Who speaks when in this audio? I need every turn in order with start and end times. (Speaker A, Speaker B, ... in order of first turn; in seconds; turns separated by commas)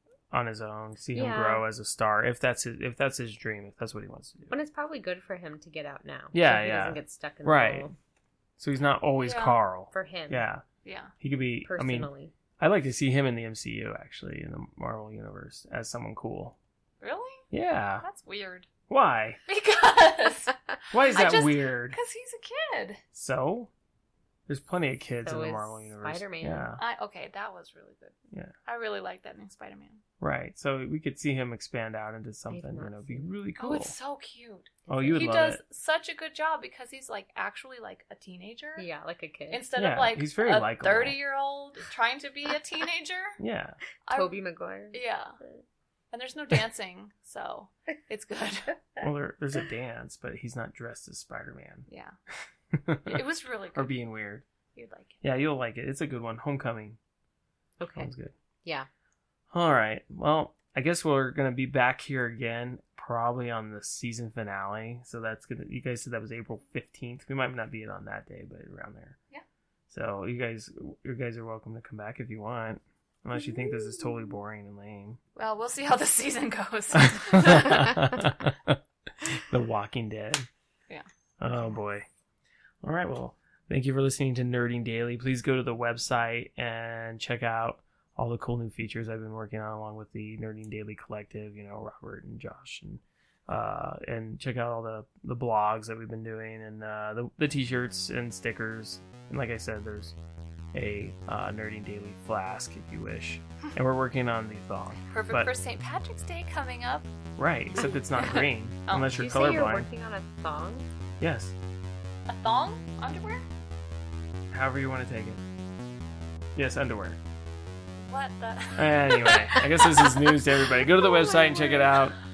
Speaker A: 0.3-4.5, Speaker B: 1.1-1.6, Speaker B: 4.5-7.9, Speaker A: 6.3-7.9, Speaker A: 8.6-10.6, Speaker C: 9.2-9.6, Speaker B: 9.9-10.4, Speaker C: 10.8-11.1, Speaker A: 11.2-16.6, Speaker B: 11.6-12.3, Speaker C: 17.0-17.5, Speaker A: 17.5-18.0, Speaker C: 18.0-18.7, Speaker A: 18.9-19.4, Speaker C: 19.4-23.0, Speaker A: 20.9-22.0, Speaker A: 23.1-23.7, Speaker A: 24.5-26.8, Speaker B: 25.2-26.7, Speaker C: 26.8-30.0, Speaker A: 30.2-33.9, Speaker B: 32.5-33.3, Speaker C: 33.6-38.9, Speaker B: 34.9-35.3, Speaker A: 34.9-35.6, Speaker B: 38.8-39.7, Speaker C: 39.5-43.4, Speaker A: 39.8-41.2, Speaker A: 43.4-43.8, Speaker C: 44.1-44.4, Speaker B: 44.1-45.6, Speaker C: 44.9-45.4, Speaker C: 46.1-48.8, Speaker A: 49.0-51.9, Speaker C: 51.9-52.1, Speaker A: 52.7-53.2, Speaker C: 53.0-53.9, Speaker A: 53.7-54.4, Speaker C: 54.7-55.2, Speaker A: 55.2-57.0, Speaker B: 57.8-58.1, Speaker A: 58.0-58.4, Speaker A: 59.5-69.2, Speaker A: 69.9-75.2, Speaker C: 75.3-78.0, Speaker A: 77.0-80.5, Speaker A: 81.4-82.1, Speaker A: 82.8-100.2, Speaker A: 100.7-105.5, Speaker C: 105.1-107.1, Speaker A: 107.4-109.9, Speaker C: 108.9-109.1, Speaker B: 109.1-110.9, Speaker A: 111.2-111.5, Speaker C: 112.3-113.4, Speaker A: 114.5-115.4, Speaker A: 116.5-117.2, Speaker C: 118.0-120.8, Speaker A: 118.8-122.1